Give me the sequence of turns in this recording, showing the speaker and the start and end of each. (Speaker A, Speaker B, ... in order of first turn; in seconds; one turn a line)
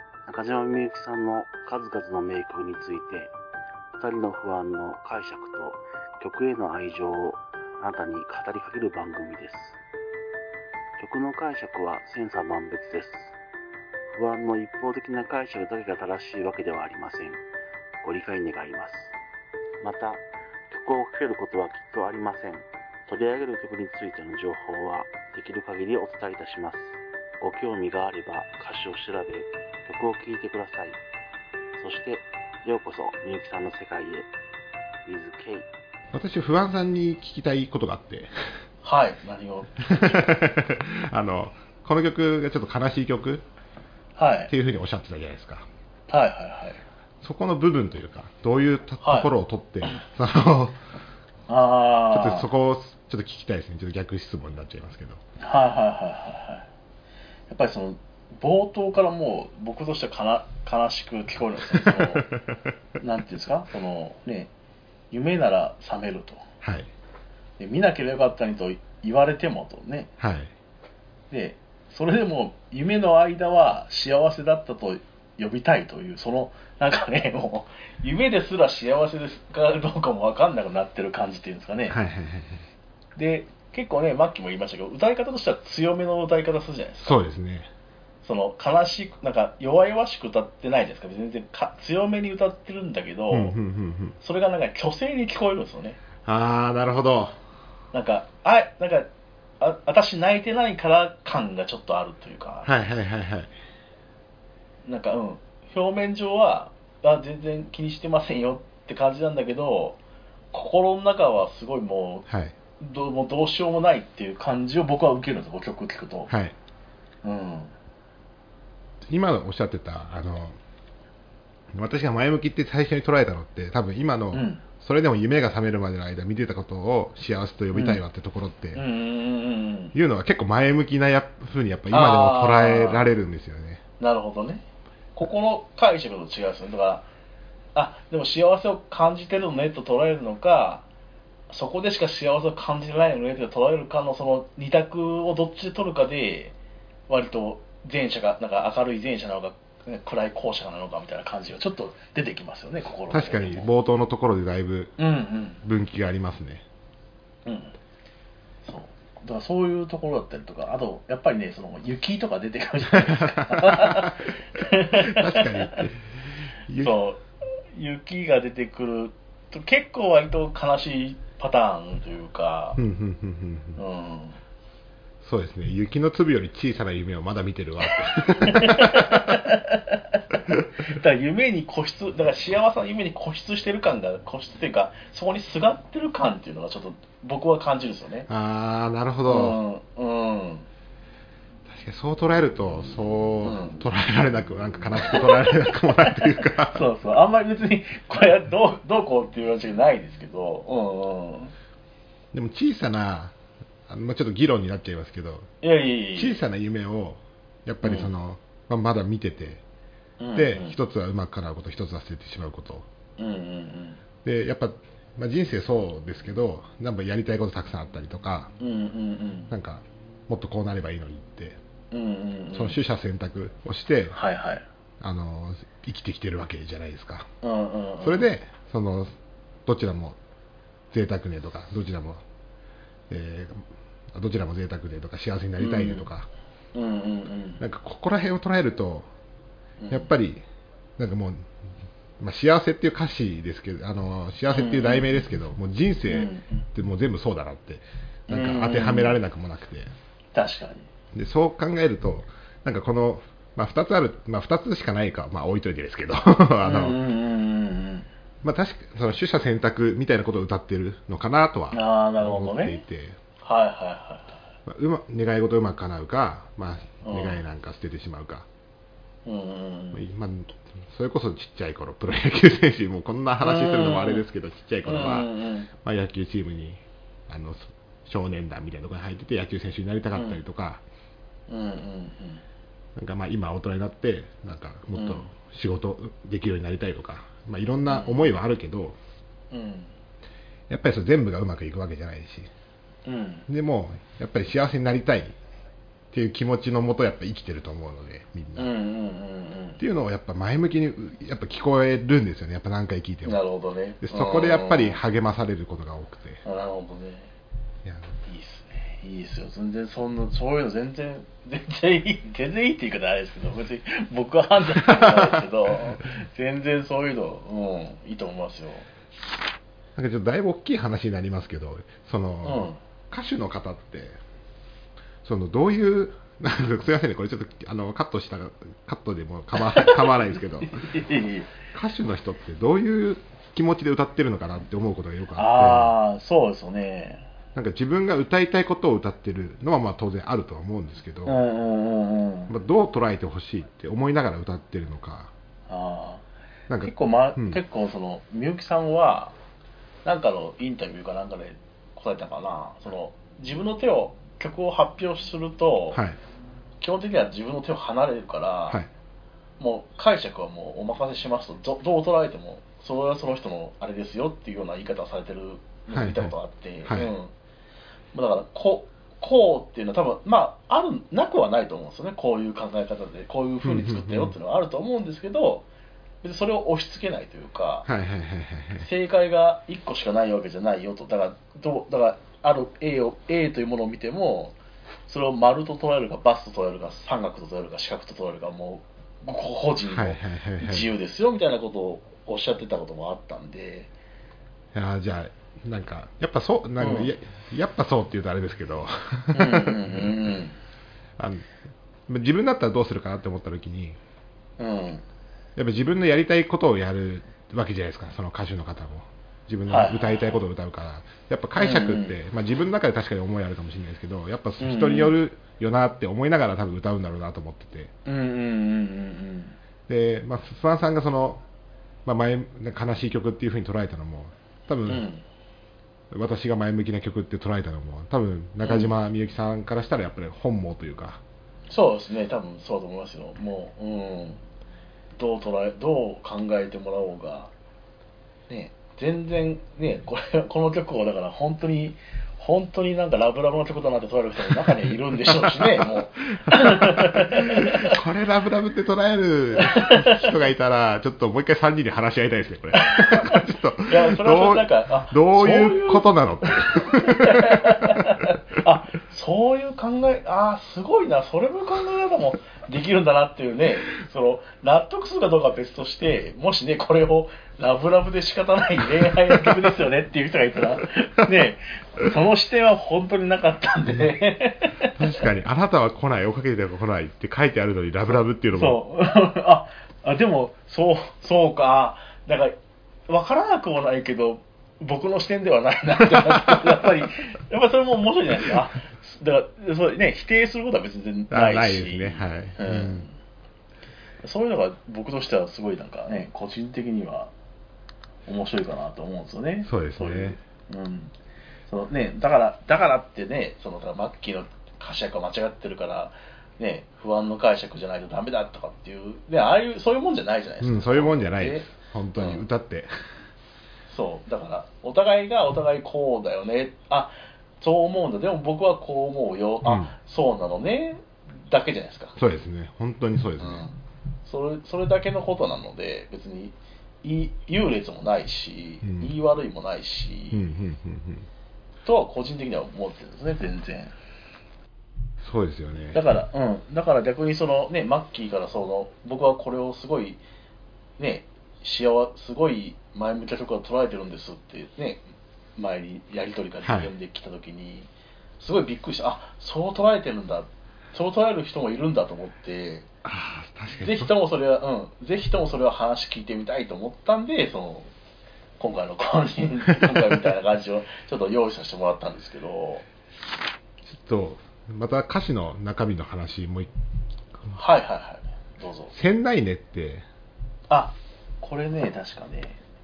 Speaker A: 0.3-3.3
Speaker B: 0.3-3.3
Speaker A: 4.0-7.2
Speaker B: 4.1-9.4
Speaker A: 7.8-9.6
Speaker A: 11.0-13.2
Speaker B: 11.0-12.7
Speaker A: 14.2-17.3
Speaker B: 14.5-17.3
Speaker A: 18.0-19.0
Speaker A: 19.8-20.1
Speaker A: 20.7-26.8
Speaker B: 21.0-22.6
Speaker B: 23.2-26.5
Speaker A: 27.4-29.3
Speaker B: 27.4-29.5
Speaker A: 29.9-30.9
Speaker A: 31.8-34.1
Speaker B: 31.8-32.2
Speaker B: 32.7-34.2
Speaker A: 35.1-35.6
Speaker B: 35.1-35.6
Speaker C: 36.1-38.3
Speaker B: 38.8-40.3
Speaker C: 40.0-43.4
Speaker B: 44.1-44.5
Speaker C: 44.5-45.7
Speaker B: 46.1-46.8
Speaker C: 47.2-50.8
Speaker B: 49.0-49.3
Speaker B: 51.5-52.5
Speaker C: 52.1-55.2
Speaker B: 55.4-56.7
Speaker B: 57.5-62.3
Speaker C: 61.7-62.4
Speaker B: 63.0-64.5
Speaker B: 65.1-66.4
Speaker C: 66.6-66.9
Speaker B: 67.6-70.1
Speaker C: 70.2-70.5
Speaker B: 71.3-82.0
Speaker C: 81.9-82.7
Speaker B: 83.2-87.2
Speaker C: 87.0-87.7
Speaker B: 88.2-93.5
Speaker C: 93.3-94.2
Speaker B: 94.2-96.0
Speaker C: 96.2-97.4
Speaker B: 97.9-99.1
Speaker B: 99.6-102.7
Speaker C: 102.6-103.5
Speaker B: 104.8-110.0
Speaker B: 110.5-112.2
Speaker C: 112.3-112.5
Speaker B: 112.8-116.3
Speaker C: 116.3-116.5
Speaker B: 117.2-117.7
Speaker C: 119.1-120.6
Speaker C: 121.7-128.8
Speaker B: 124.3-124.6
Speaker B: 127.7-128.0
Speaker B: 128.7-129.9
Speaker C: 129.9-133.8
Speaker B: 131.9-133.1
Speaker B: 134.0-134.6
Speaker B: 135.1-137.1
Speaker B: 137.7-140.8
Speaker B: 141.5-146.5
Speaker B: 147.1-153.7
Speaker C: 153.1-155.0
Speaker B: 155.0-155.6
Speaker C: 155.6-156.6
Speaker B: 157.4-157.7
Speaker B: 158.6-165.8
Speaker C: 162.9-164.1
Speaker C: 165.0-166.1
Speaker C: 166.7-166.9
Speaker B: 166.8-172.8
Speaker C: 172.8-173.8
Speaker B: 173.8-174.4
Speaker C: 175.2-179.3
Speaker B: 177.9-188.3
Speaker C: 188.3-189.6
Speaker B: 189.3-190.7
Speaker C: 191.7-196.8
Speaker B: 193.4-193.8
Speaker B: 195.0-201.5
Speaker C: 202.3-203.3
Speaker C: 203.9-205.5
Speaker B: 205.6-206.4
Speaker C: 206.2-209.6
Speaker B: 207.8-208.1
Speaker B: 210.2-210.8
Speaker C: 210.3-212.8
Speaker B: 213.2-214.0
Speaker C: 214.2-218.5
Speaker B: 218.6-219.5
Speaker C: 219.5-221.6
Speaker B: 221.9-222.8
Speaker C: 222.5-224.2
Speaker B: 224.1-224.6
Speaker C: 225.0-227.3
Speaker B: 227.4-228.3
Speaker C: 228.0-230.2
Speaker C: 230.9-232.2
Speaker C: 233.1-236.3
Speaker B: 235.6-236.1
Speaker B: 236.7-237.6
Speaker C: 237.6-239.1
Speaker B: 239.8-240.1
Speaker C: 239.9-240.4
Speaker C: 241.0-241.5
Speaker C: 242.2-249.9
Speaker B: 244.5-245.2
Speaker B: 246.1-246.7
Speaker B: 248.3-249.2
Speaker B: 250.3-250.9
Speaker C: 251.1-257.0
Speaker B: 256.6-258.1
Speaker C: 258.4-263.2
Speaker B: 261.7-262.8
Speaker B: 263.4-264.4
Speaker C: 264.6-268.5
Speaker B: 267.0-267.4
Speaker B: 269.2-270.0
Speaker C: 269.9-280.8
Speaker B: 273.4-274.2
Speaker B: 274.8-275.7
Speaker B: 280.1-280.4
Speaker B: 281.5-282.4
Speaker C: 282.9-289.0
Speaker B: 284.9-285.3
Speaker B: 287.9-288.3
Speaker B: 289.5-289.9
Speaker C: 290.7-292.5
Speaker B: 293.1-293.5
Speaker C: 293.5-295.3
Speaker C: 296.1-298.7
Speaker B: 298.6-299.8
Speaker C: 299.8-303.4
Speaker B: 303.2-305.0
Speaker C: 304.0-306.4
Speaker B: 306.4-307.3
Speaker C: 307.8-308.1
Speaker B: 308.3-318.9
Speaker C: 314.8-315.4
Speaker C: 319.9-324.2
Speaker B: 322.4-322.8
Speaker C: 325.2-330.8
Speaker B: 329.6-331.5
Speaker C: 331.7-335.9
Speaker B: 335.4-337.3
Speaker C: 337.5-341.4
Speaker B: 341.2-342.5
Speaker C: 342.5-345.3
Speaker B: 345.7-346.2
Speaker C: 346.7-347.6
Speaker B: 346.8-349.3
Speaker B: 350.0-356.0
Speaker C: 355.9-356.2
Speaker B: 356.8-358.8
Speaker B: 359.6-367.3
Speaker C: 365.9-367.1
Speaker B: 368.1-375.7
Speaker C: 373.6-374.4
Speaker B: 376.2-377.9
Speaker C: 377.9-378.9
Speaker B: 378.8-393.9
Speaker C: 389.9-390.9
Speaker C: 394.7-400.3
Speaker B: 396.8-397.1
Speaker B: 399.3-400.6
Speaker C: 401.2-401.4
Speaker C: 402.1-404.0
Speaker B: 404.6-405.0
Speaker C: 405.6-417.9
Speaker B: 409.7-410.4
Speaker B: 411.6-412.2
Speaker B: 414.6-415.1
Speaker B: 418.0-419.6
Speaker C: 419.9-421.4
Speaker C: 422.0-425.1
Speaker B: 424.9-425.2
Speaker C: 426.1-431.2
Speaker B: 428.6-428.9
Speaker B: 431.7-434.4
Speaker B: 435.1-437.5
Speaker B: 438.5-448.0
Speaker C: 445.6-446.0
Speaker C: 446.5-457.9
Speaker B: 449.5-450.0
Speaker B: 452.7-474.9
Speaker C: 474.9-478.8
Speaker B: 478.5-482.6
Speaker B: 483.1-493.1
Speaker C: 491.3-493.1
Speaker B: 494.2-497.3
Speaker B: 498.2-501.1
Speaker C: 499.6-500.4
Speaker B: 501.7-512.4
Speaker C: 510.6-512.9
Speaker B: 513.9-522.2
Speaker C: 519.6-519.9
Speaker C: 522.2-523.6
Speaker B: 523.4-530.4
Speaker C: 528.8-529.1
Speaker C: 530.3-531.3
Speaker B: 531.8-533.9
Speaker C: 535.2-536.0
Speaker B: 535.9-540.2
Speaker B: 541.0-552.9
Speaker C: 546.6-546.9
Speaker C: 553.0-554.1
Speaker B: 553.7-557.9
Speaker B: 558.6-562.9
Speaker C: 563.8-566.7
Speaker B: 567.5-568.9
Speaker C: 568.9-570.0
Speaker B: 570.7-572.6